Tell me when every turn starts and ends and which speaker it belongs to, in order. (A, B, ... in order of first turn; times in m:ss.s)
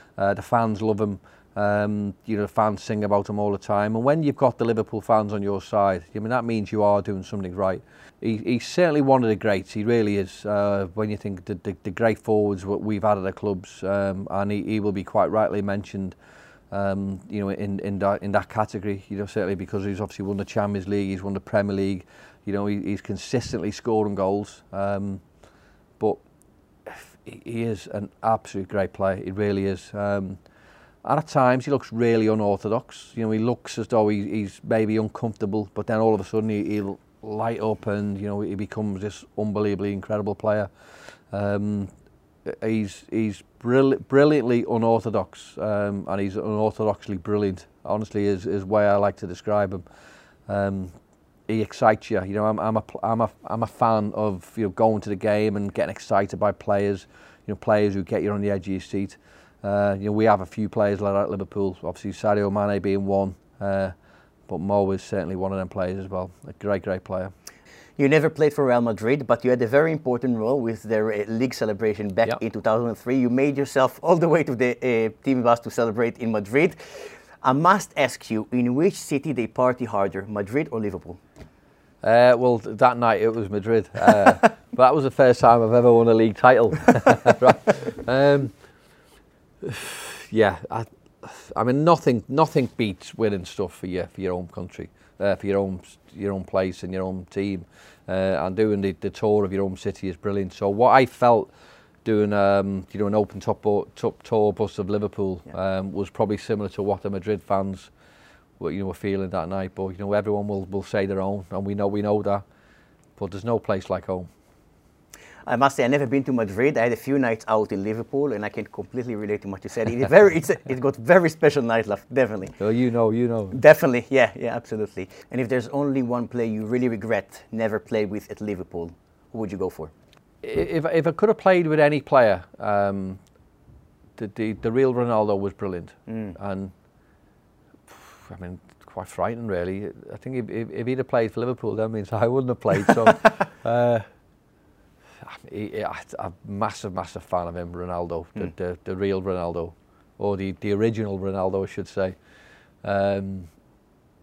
0:00.2-0:16.1 A
0:16.7-0:25.2 A
0:26.8-0:30.4 A
0:31.0-0:40.7 A
0:41.3-0:41.9 A
0:42.4-0:49.8 A
0:50.5-0:50.9 A
0:51.5-1:03.9 A
1:04.5-1:07.3 A
1:08.0-1:21.2 B
1:22.0-1:28.5 A
1:29.6-1:41.5 A
1:42.0-1:47.9 A
1:48.6-1:52.4 A
1:53.2-1:54.3 A
1:55.4-2:02.6 B
2:02.6-2:03.6 A
2:03.5-2:09.9 B
2:10.4-2:13.2 A
2:14.2-2:16.7 A
2:16.1-2:16.4 B
2:17.9-2:24.1 A
2:25.2-2:32.2 A
2:32.8-2:33.5 A